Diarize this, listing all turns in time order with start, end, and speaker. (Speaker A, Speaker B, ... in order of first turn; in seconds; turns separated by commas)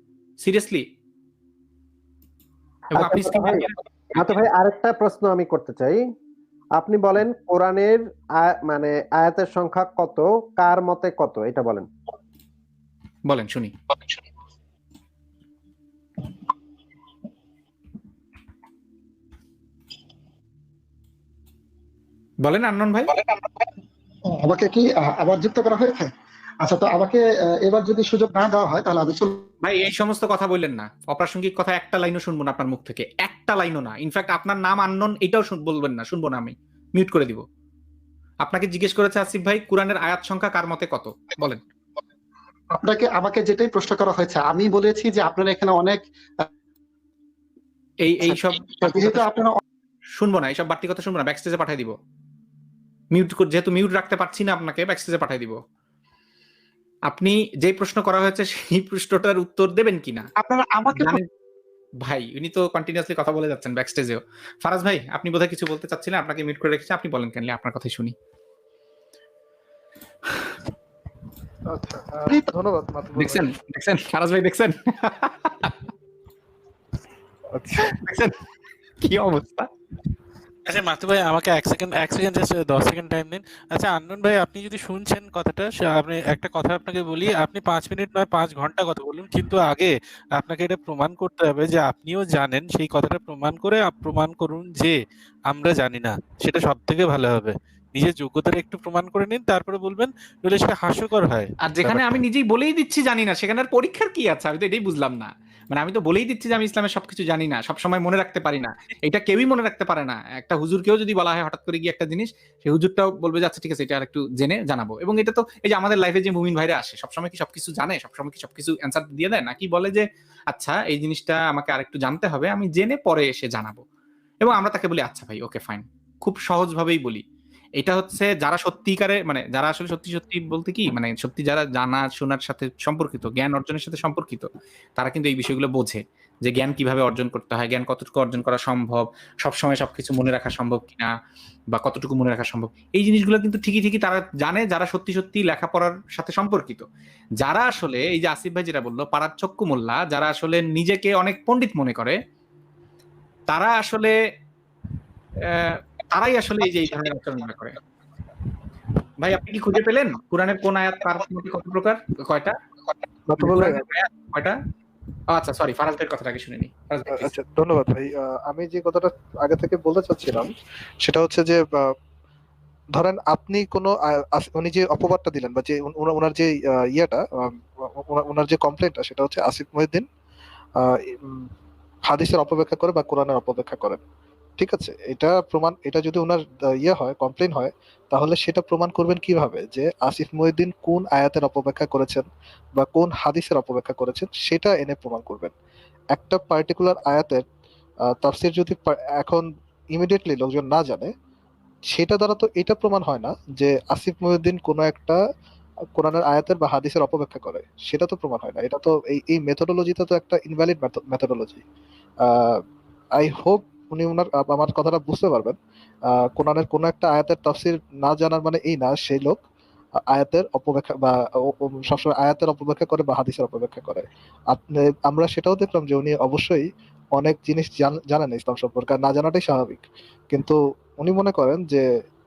Speaker A: 0.4-0.8, Speaker A: 2.9-4.3, Speaker B: 3.0-6.0, Speaker B: 6.8-11.9, Speaker A: 13.3-13.7, Speaker A: 22.4-23.1, Speaker C: 23.3-23.7, Speaker C: 24.3-26.1, Speaker C: 26.6-29.5, Speaker A: 29.6-37.4, Speaker A: 38.5-41.6, Speaker C: 42.7-46.5, Speaker A: 48.1-49.3, Speaker C: 48.2-49.6, Speaker A: 50.2-51.9, Speaker A: 53.1-55.5, Speaker A: 57.1-60.3, Speaker C: 60.4-61.2, Speaker A: 61.0-61.2, Speaker A: 62.0-68.1, Speaker D: 71.7-73.5, Speaker A: 73.2-75.8, Speaker D: 77.5-78.0, Speaker A: 77.8-78.3, Speaker A: 79.0-79.7, Speaker E: 80.7-102.2, Speaker A: 101.7-123.8, Speaker A: 124.4-127.2, Speaker A: 127.8-134.5, Speaker A: 135.0-141.1, Speaker A: 141.7-146.8, Speaker A: 147.4-152.2, Speaker A: 153.5-154.1, Speaker A: 155.5-157.8, Speaker A: 159.2-162.5, Speaker D: 163.3-163.8, Speaker A: 163.4-164.6, Speaker A: 165.3-167.3, Speaker D: 167.1-171.9, Speaker D: 172.9-180.1, Speaker D: 180.8-181.5, Speaker D: 182.1-184.0, Speaker D: 184.6-195.5, Speaker D: 196.1-197.4, Speaker D: 198.1-201.1, Speaker D: 201.9-205.2, Speaker D: 205.9-211.7, Speaker D: 212.2-212.6, Speaker D: 213.2-219.4, Speaker D: 220.1-231.8